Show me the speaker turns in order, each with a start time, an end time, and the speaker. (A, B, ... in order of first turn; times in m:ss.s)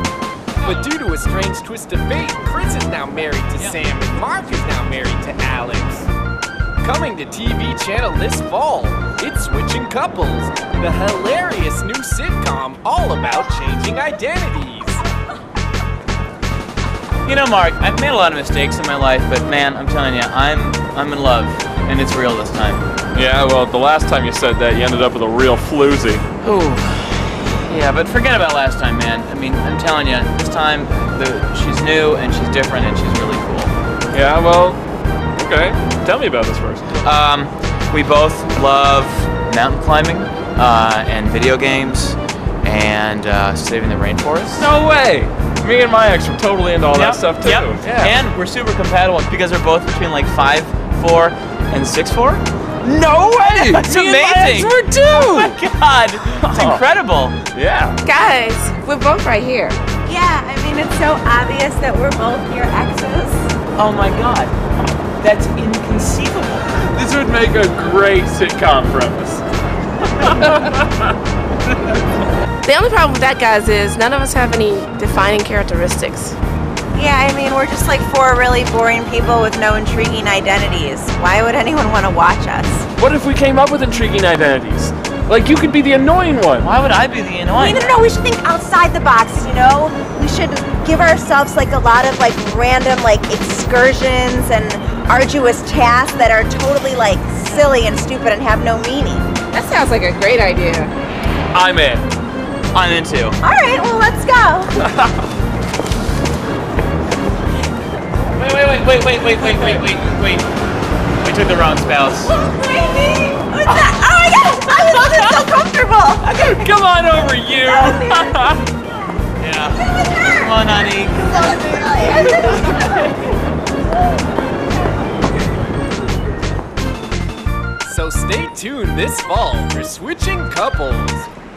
0:00.6-0:06.1 A
0:06.8-0:15.0 A
0:17.2-0:22.8 B
0:23.1-0:26.2 C
0:26.4-0:33.7 B
0:34.1-0:34.8 C
0:35.4-0:36.8 C
0:37.0-0:44.7 B
0:44.6-0:48.2 C
0:46.9-0:57.4 B
0:53.4-0:55.5 C
0:56.5-0:56.8 C
0:57.5-0:58.0 C
0:58.0-0:59.8 D
1:00.0-1:03.5 E
1:03.8-1:04.5 B
1:05.2-1:06.7 B
1:06.8-1:09.4 C
1:10.2-1:10.8 C
1:12.6-1:16.4 D
1:16.9-1:22.9 E
1:23.0-1:26.7 C
1:26.6-1:27.9 B
1:27.6-1:39.3 E
1:39.5-1:40.9 D
1:41.6-1:42.1 C
1:42.7-1:43.4 B
1:43.4-1:44.8 E
1:48.3-1:50.5 B
1:51.2-1:52.3 B
1:52.4-1:56.6 E
1:56.4-1:58.6 C
1:57.6-1:58.4 E
1:59.4-2:02.9 B
2:00.0-2:00.4 E
2:01.4-2:02.8 E
2:07.8-2:11.3 A